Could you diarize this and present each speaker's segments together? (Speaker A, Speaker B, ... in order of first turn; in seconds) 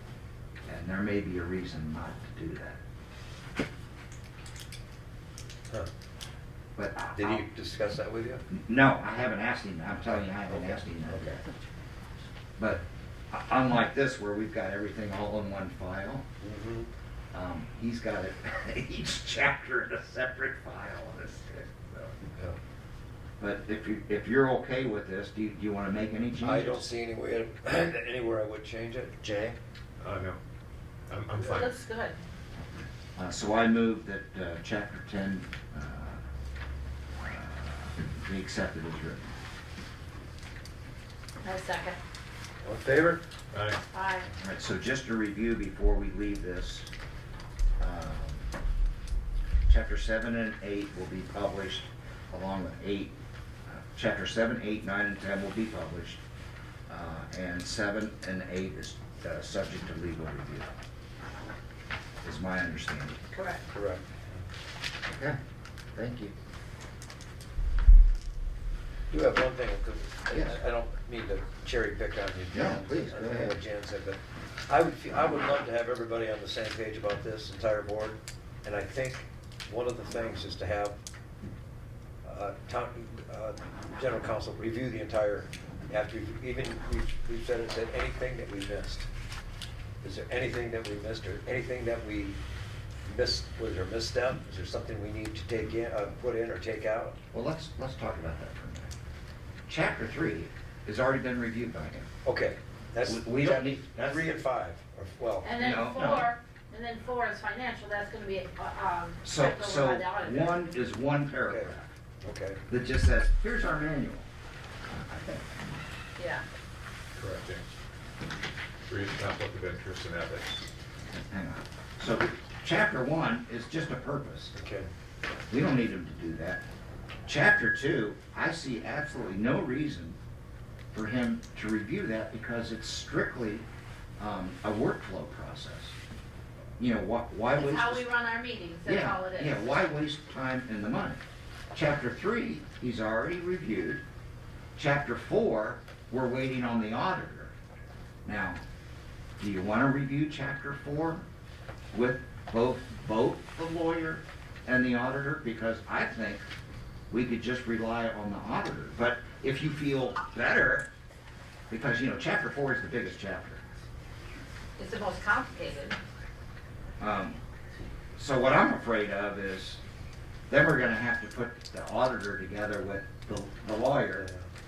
Speaker A: 0.7-2.8, 6.8-7.4, 8.5-11.4, 12.6-16.2, 17.3-22.2, 23.4-26.9, 33.2-36.2, 37.2-39.3, 44.4-46.9, 47.8-48.5, 49.7-53.1, 53.7-56.2, 56.9-60.7, 62.2-63.2, 65.1-65.4, 66.0-66.3, 72.5-73.6, 97.3-98.9, 99.7-102.1, 103.0-104.3, 105.5-106.3, 109.2-111.9, 112.7-114.3, 114.9-115.7, 121.1-124.5, 125.5-126.6, 127.3-130.2, 130.9-133.7, 134.2-135.9, 136.8-138.1, 138.8-141.2, 141.7-144.0, 144.8-147.5, 148.2-148.6, 149.4-151.2, 151.9-156.4, 157.1-160.9, 161.7-163.6, 167.0-167.4, 168.2-169.8, 170.5-174.3
Speaker B: 7.2-8.4, 10.5-11.4, 16.4-16.9, 26.4-29.6, 42.6-43.2, 63.7-64.1, 69.1-81.0, 82.2-89.1, 90.0-92.4, 93.0-97.2, 102.2-105.5, 111.5-112.6, 124.5-124.9, 174.1-174.5
Speaker C: 30.0-30.4, 31.1-31.7, 43.5-43.8, 117.2-117.6, 118.9-120.7
Speaker D: 31.4-32.2, 41.4-42.0, 43.9-44.3, 63.3-63.6, 105.4-110.6, 116.2-116.4, 137.5-139.7, 164.8-166.0